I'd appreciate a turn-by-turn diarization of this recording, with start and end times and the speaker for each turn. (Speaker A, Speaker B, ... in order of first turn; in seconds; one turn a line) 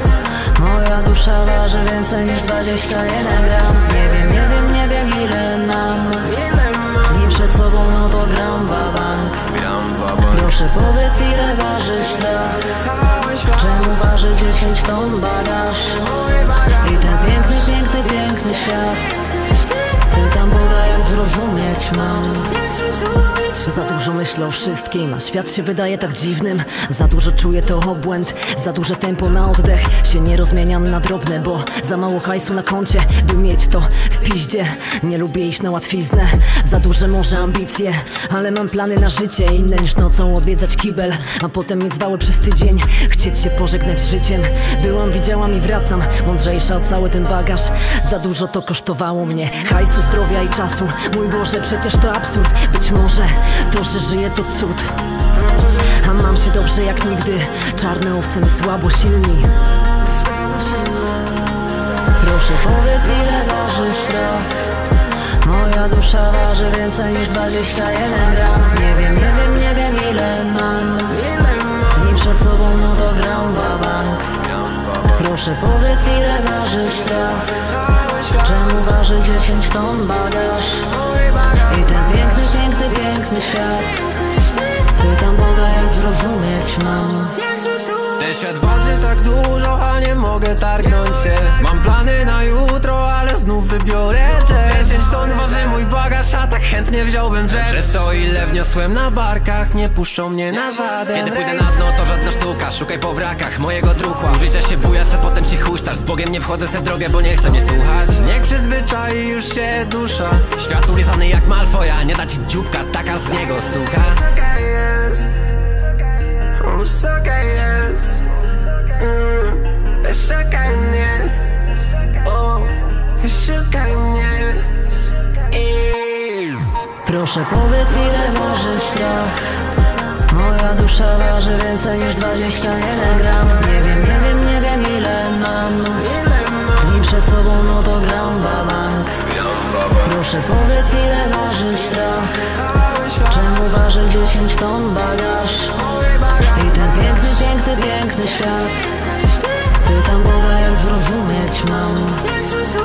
Speaker A: 0.5-9.5
Speaker B: 9.7-10.2
Speaker A: 10.2-16.1
Speaker A: 16.7-19.2
Speaker A: 20.0-22.7
Speaker C: 23.6-55.0
Speaker C: 56.0-59.5
Speaker A: 62.2-64.6
Speaker A: 65.4-74.4
Speaker A: 75.1-81.0
Speaker A: 81.6-84.1
Speaker A: 84.8-87.5
Speaker B: 88.0-114.4
Speaker D: 117.0-117.8
Speaker D: 120.3-120.9
Speaker D: 123.4-124.4
Speaker A: 127.0-129.5
Speaker A: 130.2-139.2
Speaker A: 140.0-142.6
Speaker A: 143.1-145.9
Speaker A: 146.4-149.1
Speaker A: 149.7-152.5